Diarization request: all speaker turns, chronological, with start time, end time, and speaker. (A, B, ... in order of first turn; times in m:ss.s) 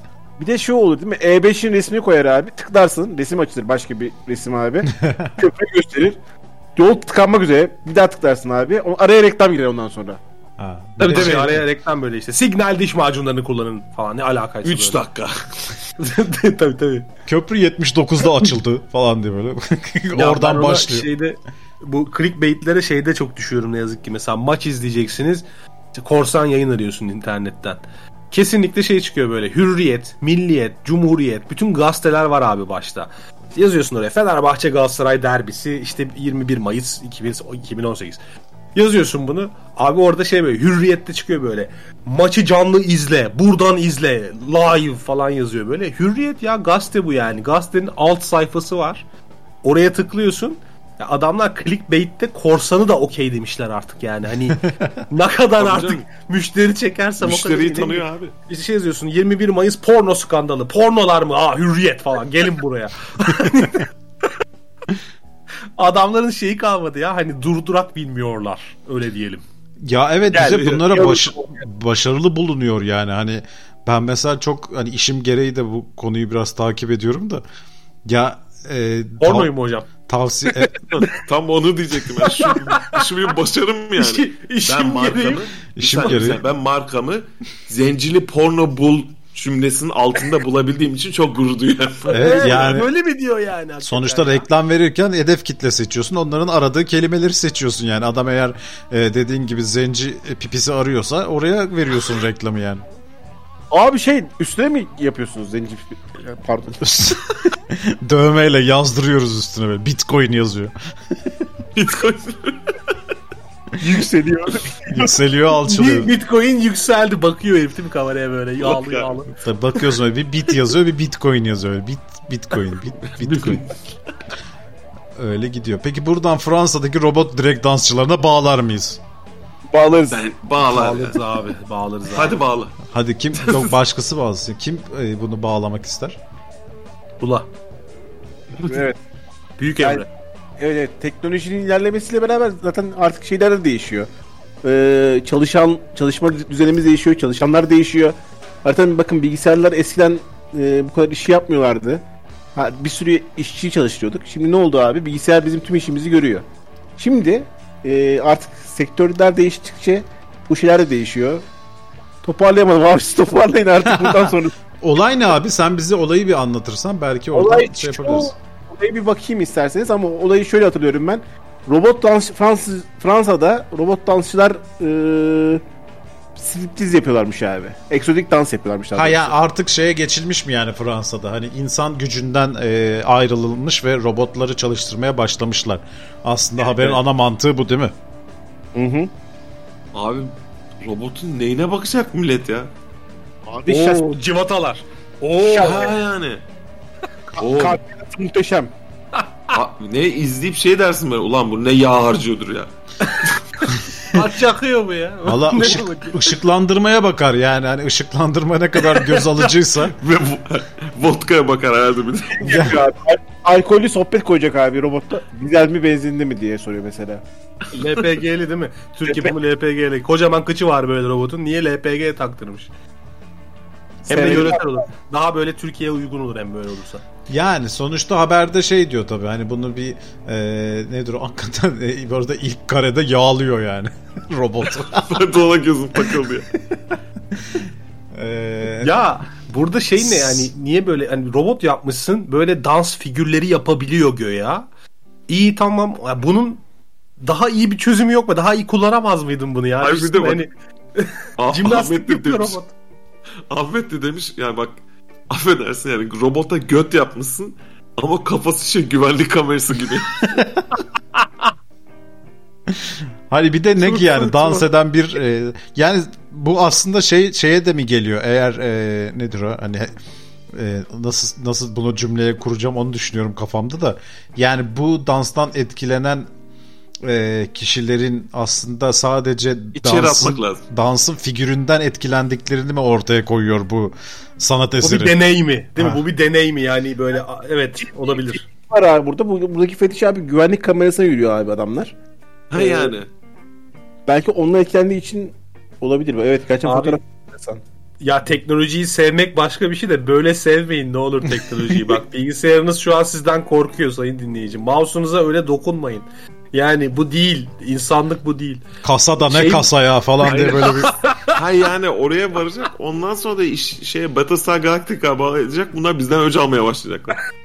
0:00.4-0:06.2 A
0:04.9-0:05.3 B
0:06.8-0:10.2 A
0:10.6-0:11.6 B
0:11.0-0:15.0 C
0:11.1-0:11.6 D
0:14.6-0:15.4 D
0:16.0-0:17.1 C
0:17.3-0:21.1 B
0:20.2-0:38.2 C
0:38.8-0:49.0 C
0:49.6-1:03.9 C
0:54.7-0:55.0 B
0:55.6-0:56.0 D
0:57.2-0:58.3 D
1:05.8-1:09.4 C
1:09.8-1:17.4 B
1:10.4-1:10.8 D
1:10.5-1:11.0 C
1:18.1-1:20.8 B
1:19.2-1:19.9 C
1:20.5-1:21.0 C
1:20.9-1:32.9 D
1:22.2-1:23.0 C
1:24.0-1:25.4 C
1:25.8-1:26.4 B
1:26.0-1:26.3 C
1:32.1-1:34.5 C
1:32.1-1:32.9 B
1:33.8-1:42.8 B
1:43.7-1:46.8 A
1:46.8-1:47.2 B
1:47.7-1:50.7 B
1:51.8-1:52.7 D
1:53.8-1:55.0 A
1:54.9-1:56.1 B
1:55.7-1:59.3 C
1:58.6-1:59.1 D
1:59.4-2:03.7 B
2:03.2-2:03.6 D
2:05.2-2:09.0 B
2:09.7-2:10.3 A
2:10.1-2:11.2 D
2:10.6-2:12.4 C
2:12.1-2:12.8 D
2:12.9-2:16.2 B
2:13.4-2:13.7 D
2:17.2-2:17.5 C
2:18.6-2:19.0 A
2:19.6-2:20.1 C
2:19.8-2:20.1 A
2:20.6-2:24.1 A
2:24.6-2:32.0 A
2:32.6-2:36.5 A
2:37.0-2:41.4 A
2:42.2-2:44.5 A
2:43.9-2:44.3 B
2:44.8-2:48.3 B
2:47.3-2:55.6 A
2:56.4-2:59.4 A
2:59.0-3:07.9 B
3:06.6-3:07.0 A
3:08.8-3:09.1 A
3:09.9-3:12.7 D
3:13.5-3:14.1 A
3:13.7-3:16.0 C
3:15.4-3:15.9 A
3:15.6-3:16.4 D
3:17.4-3:17.8 D
3:17.4-3:18.7 A
3:19.5-3:22.7 D
3:24.1-3:26.4 C
3:25.2-3:30.0 B
3:28.8-3:29.4 C
3:30.0-3:32.8 D
3:32.4-3:37.2 A
3:32.5-3:32.8 B
3:37.7-3:42.7 C
3:39.1-3:39.4 A
3:44.0-3:47.0 C
3:44.1-3:44.8 A
3:47.3-3:55.2 B
3:55.1-3:56.5 D
3:57.4-3:59.0 B
3:58.8-4:04.7 C
4:00.0-4:00.5 B
4:05.3-4:06.6 C
4:07.2-4:12.7 C
4:09.8-4:10.4 D
4:11.4-4:12.6 D
4:13.5-4:14.8 D
4:15.3-4:20.3 D
4:20.3-4:20.7 B
4:22.7-4:29.9 B
4:23.8-4:24.7 C
4:30.5-4:36.3 B
4:37.0-4:45.2 B
4:39.8-4:40.6 D
4:44.8-4:48.4 C
4:45.8-4:46.0 B
4:47.9-4:51.9 A
4:52.5-4:53.1 D
4:52.5-4:53.0 A
4:54.1-4:57.6 A
4:56.6-4:57.0 C
4:58.0-5:08.6 C
5:08.8-5:10.9 B
5:09.2-5:11.3 C
5:11.4-5:17.2 D